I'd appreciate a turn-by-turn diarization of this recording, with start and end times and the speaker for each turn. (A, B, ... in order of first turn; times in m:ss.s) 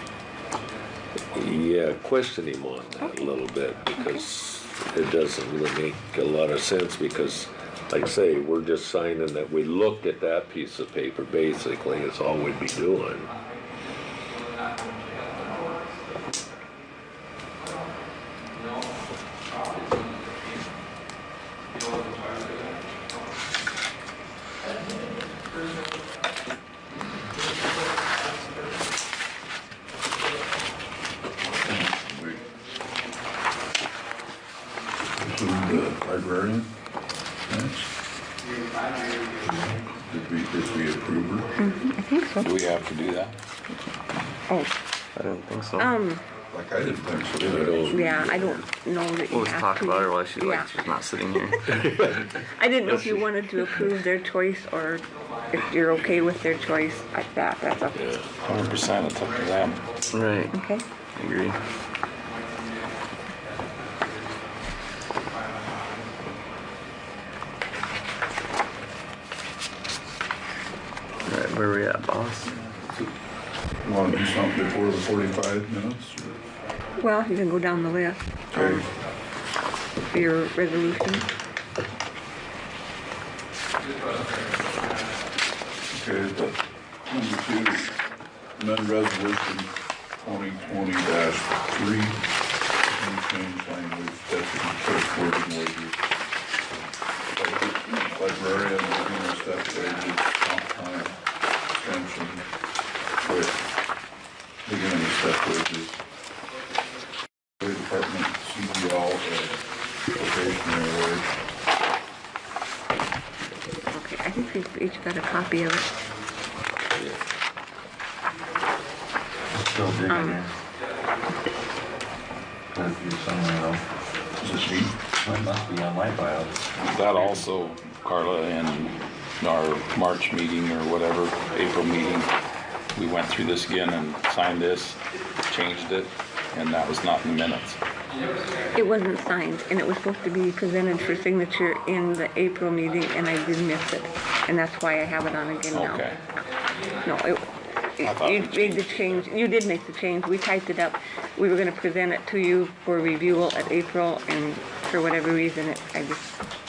0:01.2-0:13.3 A
0:03.0-0:03.3 B
0:04.0-0:04.2 B
0:31.7-0:32.5 C
0:35.2-0:36.8 C
0:37.5-0:37.9 C
0:39.4-0:39.9 D
0:40.0-0:41.6 C
0:41.6-0:42.5 B
0:42.4-0:43.4 E
0:44.5-0:44.7 B
0:45.2-0:45.9 F
0:45.8-0:46.2 B
0:46.5-0:48.7 C
0:47.4-0:48.4 A
0:47.9-0:50.8 B
0:49.3-0:52.1 F
0:52.3-0:58.2 B
0:52.9-0:53.2 F
0:57.9-0:58.4 A
0:58.4-1:00.0 E
1:00.1-1:00.6 F
1:00.5-1:00.9 B
1:01.2-1:01.6 F
1:11.2-1:12.5 F
1:12.6-1:13.1 C
1:13.8-1:16.4 C
1:17.0-1:18.9 B
1:18.5-1:18.8 C
1:20.0-1:21.3 B
1:25.9-1:27.9 C
1:28.6-1:32.2 C
1:32.9-1:36.0 C
1:37.4-1:41.2 C
1:41.7-1:42.5 C
1:43.2-1:43.6 C
1:44.6-1:46.0 C
1:47.6-1:51.4 C
1:53.9-1:55.9 B
1:57.0-1:57.2 A
1:59.5-2:00.5 D
2:00.1-2:00.4 B
2:02.7-2:03.9 D
2:04.4-2:05.0 C
2:05.2-2:07.5 D
2:06.8-2:12.4 E
2:13.0-2:17.8 E
2:18.7-2:26.1 B
2:25.7-2:26.2 E
2:27.0-2:36.3 B
2:28.0-2:29.3 E